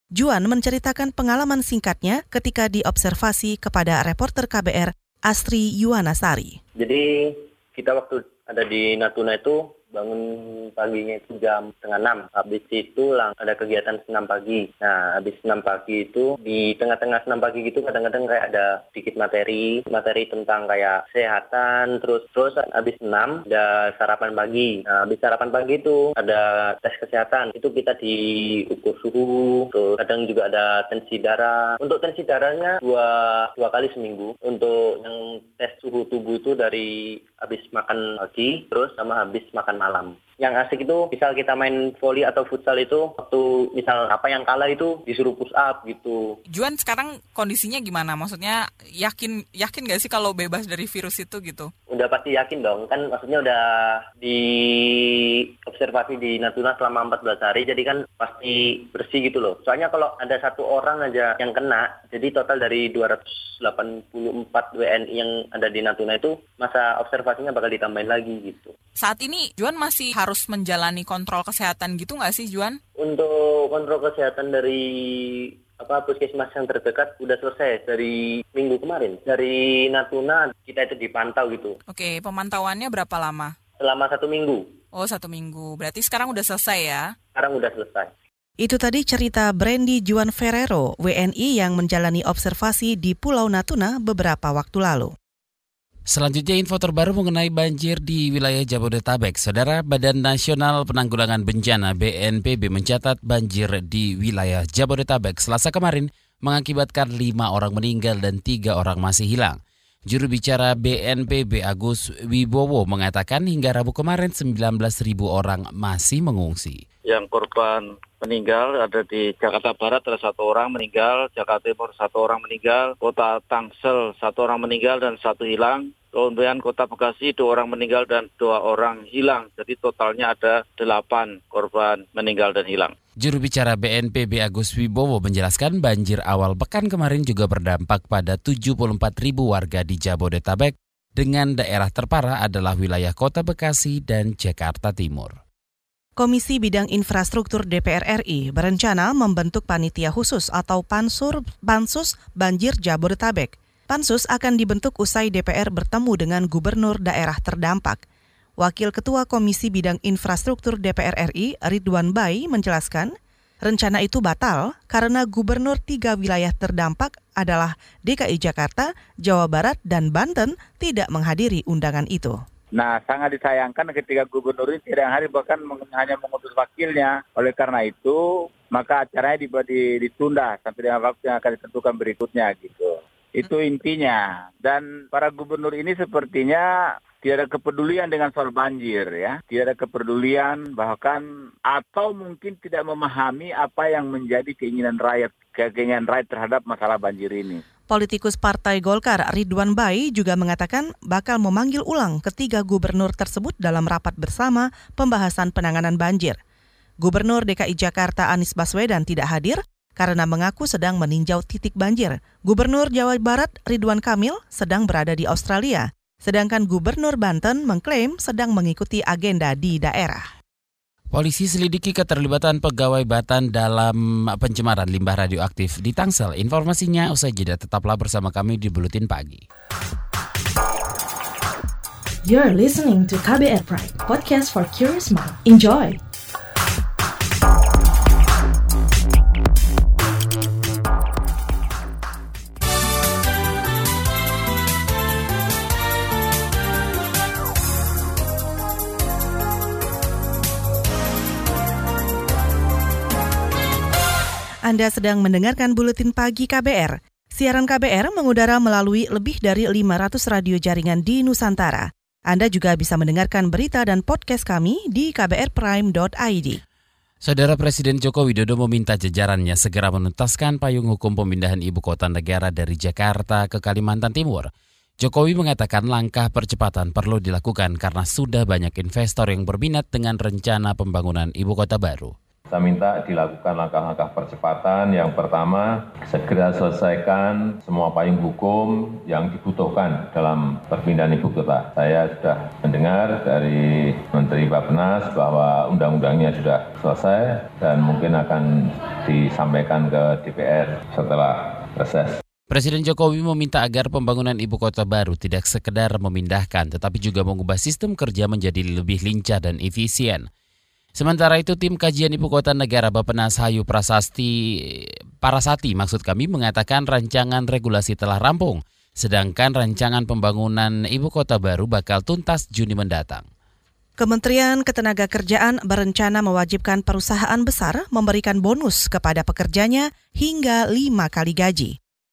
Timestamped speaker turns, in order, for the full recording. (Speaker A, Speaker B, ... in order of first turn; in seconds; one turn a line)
Speaker A: 0.1-6.6
Speaker B: 6.8-46.4
Speaker C: 46.5-51.7
Speaker B: 51.9-68.7
Speaker C: 69.0-72.8
Speaker B: 73.0-81.8
Speaker C: 81.9-83.5
Speaker B: 83.8-84.7
Speaker C: 84.9-87.1
Speaker B: 87.3-88.1
Speaker A: 88.6-95.1
Speaker D: 96.1-116.8
Speaker E: 117.1-132.9
Speaker D: 133.2-145.4
Speaker A: 146.2-158.0
Speaker A: 158.6-163.1
Speaker A: 163.6-172.4
Speaker F: 172.7-178.2
Speaker F: 178.7-197.6
Speaker A: 197.9-206.4
Speaker A: 207.0-220.3
Speaker D: 221.1-229.4
Speaker G: 232.2-236.0
Speaker A: 254.7-266.6
Speaker D: 267.2-282.1
Speaker H: 282.5-302.2
Speaker D: 302.5-310.3
Speaker D: 310.9-323.3
Speaker A: 324.0-331.7